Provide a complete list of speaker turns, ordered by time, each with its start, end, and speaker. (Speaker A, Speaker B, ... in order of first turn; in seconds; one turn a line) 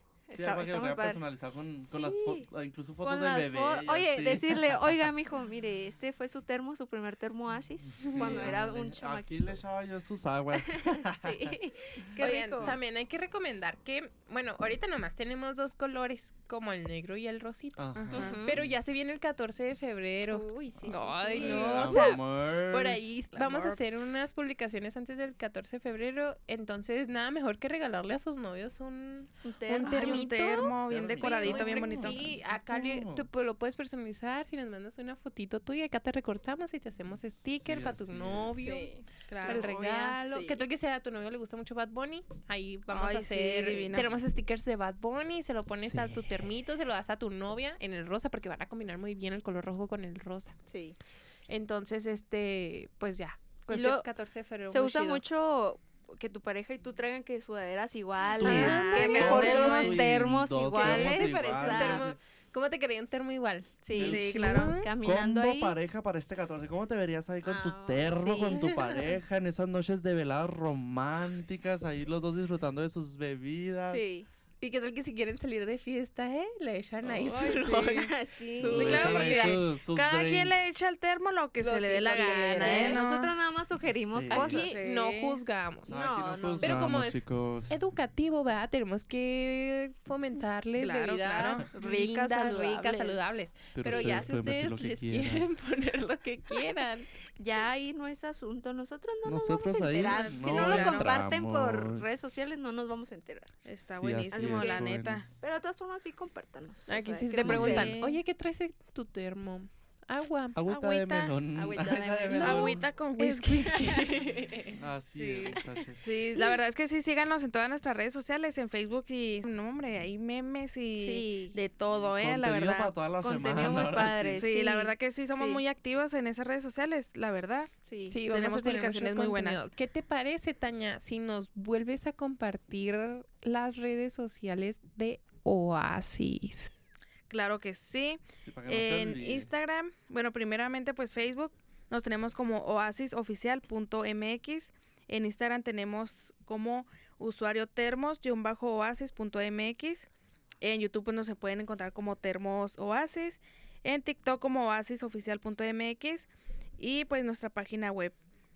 Speaker A: 0.3-1.2
Speaker B: 0.3-5.1
Speaker A: 1.8-2.5
Speaker A: 3.0-9.5
Speaker B: 7.9-11.6
Speaker A: 10.5-12.8
Speaker B: 12.2-12.8
Speaker C: 12.2-17.9
Speaker B: 17.8-18.8
Speaker D: 17.9-18.4
Speaker A: 18.1-18.5
Speaker C: 18.4-50.5
Speaker A: 20.3-21.9
Speaker D: 21.3-22.1
Speaker B: 21.4-23.2
Speaker D: 23.3-23.9
Speaker A: 29.4-30.3
Speaker D: 29.8-32.2
Speaker B: 30.5-33.3
Speaker B: 37.4-38.6
Speaker A: 38.6-40.6
Speaker D: 39.3-39.7
Speaker D: 42.9-44.1
Speaker B: 45.8-46.4
Speaker A: 50.7-51.0
Speaker C: 51.5-55.2
Speaker A: 53.7-54.1
Speaker A: 54.7-62.1
Speaker B: 58.4-62.2
Speaker C: 58.4-59.9
Speaker D: 58.5-60.0
Speaker C: 60.7-64.9
Speaker A: 63.8-65.8
Speaker D: 64.0-64.8
Speaker B: 65.0-74.0
Speaker A: 67.4-68.7
Speaker C: 68.6-69.0
Speaker A: 73.8-74.3
Speaker C: 74.6-79.6
Speaker A: 77.2-79.6
Speaker D: 77.3-78.1
Speaker B: 78.6-80.7
Speaker D: 78.6-83.3
Speaker C: 81.6-83.0
Speaker A: 82.6-84.8
Speaker B: 83.8-84.7
Speaker C: 84.3-97.1
Speaker D: 84.5-85.4
Speaker B: 85.9-87.8
Speaker A: 85.9-86.8
Speaker D: 90.8-91.6
Speaker A: 91.7-94.3
Speaker B: 93.7-95.5
Speaker A: 97.4-103.5
Speaker B: 99.2-102.1
Speaker D: 100.1-101.1
Speaker D: 103.7-105.2
Speaker B: 103.9-105.4
Speaker A: 104.3-108.0
Speaker C: 106.9-110.7
Speaker D: 107.4-108.2
Speaker B: 107.4-107.9
Speaker B: 110.5-112.8
Speaker D: 110.7-111.3
Speaker A: 111.5-112.8
Speaker D: 112.3-114.0
Speaker C: 112.4-114.8
Speaker B: 114.7-116.0
Speaker D: 115.1-122.9
Speaker A: 120.9-121.6
Speaker B: 121.9-124.5
Speaker A: 123.2-125.6
Speaker D: 124.3-127.7
Speaker A: 127.8-128.2
Speaker C: 128.1-136.8
Speaker D: 128.3-129.7
Speaker D: 137.3-150.1
Speaker B: 138.3-139.5
Speaker D: 150.6-158.2